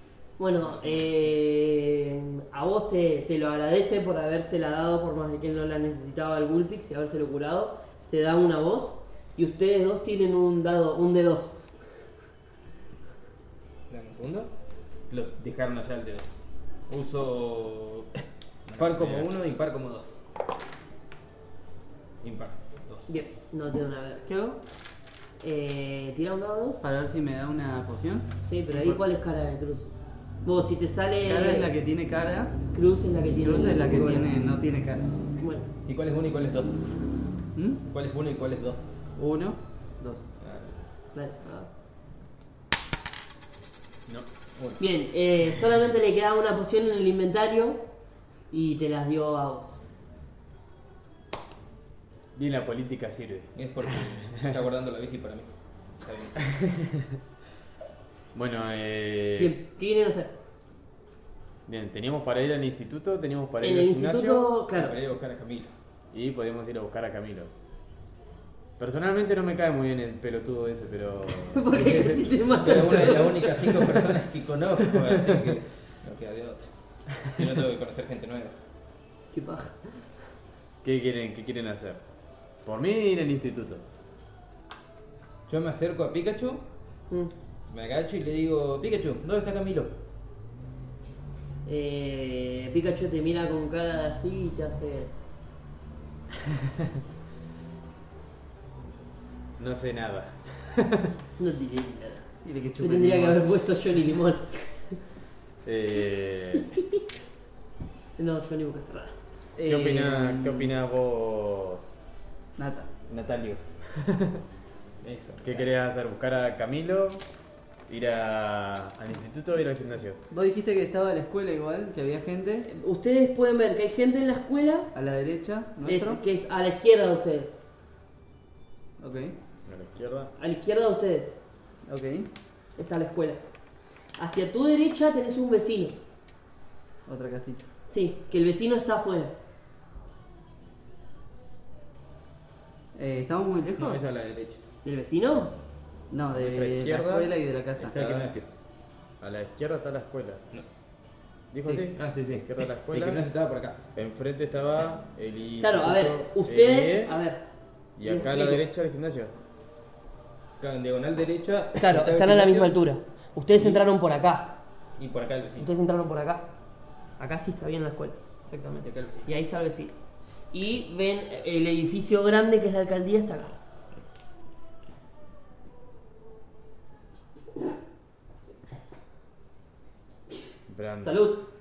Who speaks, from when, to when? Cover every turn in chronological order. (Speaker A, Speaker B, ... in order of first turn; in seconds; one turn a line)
Speaker A: 0.4-11.6
Speaker B: 13.9-14.5
Speaker B: 15.1-16.4
Speaker B: 16.9-20.2
Speaker C: 18.7-19.3
Speaker B: 22.2-23.1
Speaker A: 23.1-24.3
Speaker D: 24.3-24.6
Speaker A: 25.4-26.9
Speaker D: 26.8-29.0
Speaker A: 28.4-29.9
Speaker A: 30.4-31.7
Speaker D: 31.2-32.6
Speaker A: 32.7-34.2
Speaker D: 33.4-35.3
Speaker A: 35.4-35.7
Speaker B: 35.9-36.8
Speaker D: 37.5-37.8
Speaker B: 37.9-38.9
Speaker D: 39.2-40.3
Speaker B: 40.4-40.8
Speaker A: 41.1-41.7
Speaker A: 44.8-47.8
Speaker A: 48.5-49.8
Speaker C: 52.4-53.6
Speaker B: 53.5-56.4
Speaker C: 56.5-57.2
Speaker C: 58.3-59.6
Speaker A: 59.4-60.4
Speaker C: 61.7-64.5
Speaker A: 63.6-65.0
Speaker B: 64.7-65.7
Speaker C: 66.1-67.5
Speaker C: 68.8-73.8
Speaker A: 71.5-73.5
Speaker B: 72.6-78.5
Speaker C: 75.0-75.5
Speaker A: 79.3-80.1
Speaker C: 80.8-82.0
Speaker C: 82.6-83.8
Speaker B: 85.5-86.6
Speaker B: 87.7-89.9
Speaker A: 91.7-95.1
Speaker C: 99.6-101.1
Speaker A: 101.4-105.0
Speaker D: 102.4-103.4
Speaker C: 105.7-106.7
Speaker A: 108.2-109.1
Speaker D: 109.6-110.7
Speaker C: 109.7-112.1
Speaker D: 112.6-112.9
Speaker C: 113.1-114.4
Speaker B: 115.0-115.7
Speaker C: 115.4-117.2
Speaker C: 117.9-120.2
Speaker D: 120.3-122.7
Speaker A: 122.7-124.9
Speaker D: 124.9-126.2
Speaker A: 125.8-127.6
Speaker D: 129.0-129.3
Speaker C: 129.7-130.3
Speaker A: 130.4-131.4
Speaker D: 131.9-132.3
Speaker A: 132.8-133.4
Speaker A: 134.2-136.0
Speaker D: 137.1-137.7
Speaker A: 137.9-139.3
Speaker D: 142.9-144.0
Speaker B: 143.8-144.6
Speaker A: 144.8-145.6
Speaker D: 146.1-148.3
Speaker C: 146.3-147.3
Speaker B: 147.8-148.5
Speaker C: 149.2-150.4
Speaker C: 151.5-153.2
Speaker B: 151.7-153.8
Speaker C: 153.9-157.2
Speaker A: 155.6-157.4
Speaker C: 158.0-159.3
Speaker A: 158.0-158.6
Speaker B: 160.6-162.8
Speaker A: 161.8-164.6
Speaker B: 163.6-163.8
Speaker B: 165.0-165.7
Speaker A: 165.6-166.5
Speaker A: 167.2-169.9
Speaker B: 168.8-169.3
Speaker A: 170.5-173.6
Speaker C: 180.7-181.2
Speaker A: 181.0-181.4